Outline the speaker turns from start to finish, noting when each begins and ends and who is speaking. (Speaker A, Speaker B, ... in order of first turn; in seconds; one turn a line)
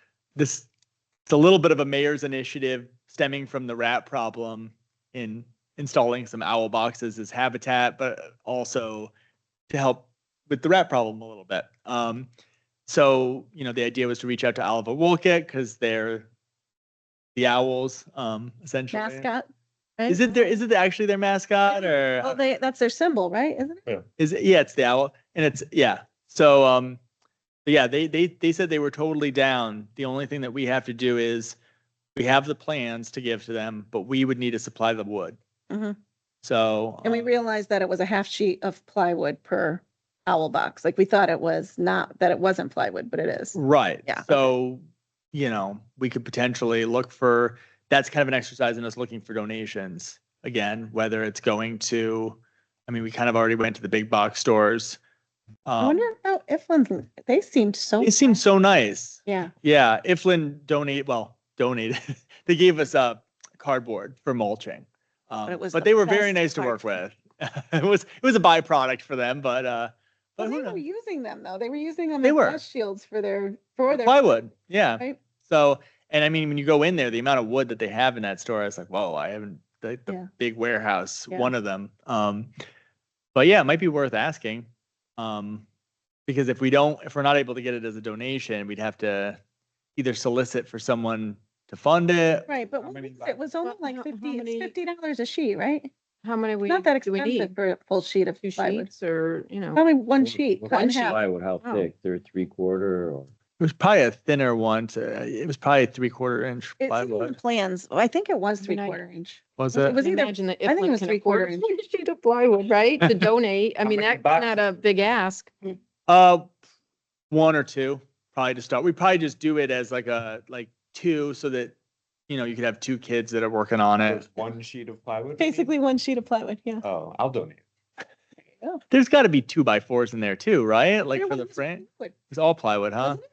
Speaker A: 0.4-0.7
Speaker A: 1.3-9.1
Speaker A: 9.7-12.3
Speaker A: 12.9-16.3
Speaker A: 17.4-19.3
Speaker B: 18.9-20.6
Speaker A: 20.1-22.4
Speaker B: 21.7-23.8
Speaker A: 24.2-27.0
Speaker A: 27.6-31.6
Speaker A: 32.1-35.4
Speaker B: 35.7-36.0
Speaker A: 36.4-37.3
Speaker B: 37.0-44.5
Speaker A: 43.5-44.8
Speaker A: 45.3-55.0
Speaker A: 55.7-56.1
Speaker B: 55.8-58.4
Speaker A: 58.0-70.8
Speaker B: 59.3-59.5
Speaker B: 65.5-67.0
Speaker B: 70.4-74.2
Speaker A: 72.2-72.6
Speaker A: 73.9-82.5
Speaker A: 83.3-85.7
Speaker A: 86.3-89.4
Speaker A: 90.0-92.5
Speaker B: 92.5-95.9
Speaker C: 92.7-93.4
Speaker D: 93.6-94.7
Speaker D: 96.2-97.5
Speaker B: 96.7-98.9
Speaker D: 98.4-99.8
Speaker B: 99.8-101.2
Speaker E: 100.2-103.3
Speaker D: 100.7-101.9
Speaker A: 103.6-107.3
Speaker B: 106.8-111.7
Speaker D: 108.6-109.0
Speaker A: 109.6-110.0
Speaker D: 110.0-115.5
Speaker C: 113.8-114.6
Speaker A: 116.1-116.5
Speaker A: 117.3-121.7
Speaker A: 122.3-124.3
Speaker C: 124.0-125.7
Speaker B: 125.4-126.8
Speaker C: 126.8-127.6
Speaker B: 128.5-128.8
Speaker A: 128.9-133.2
Speaker B: 131.1-132.2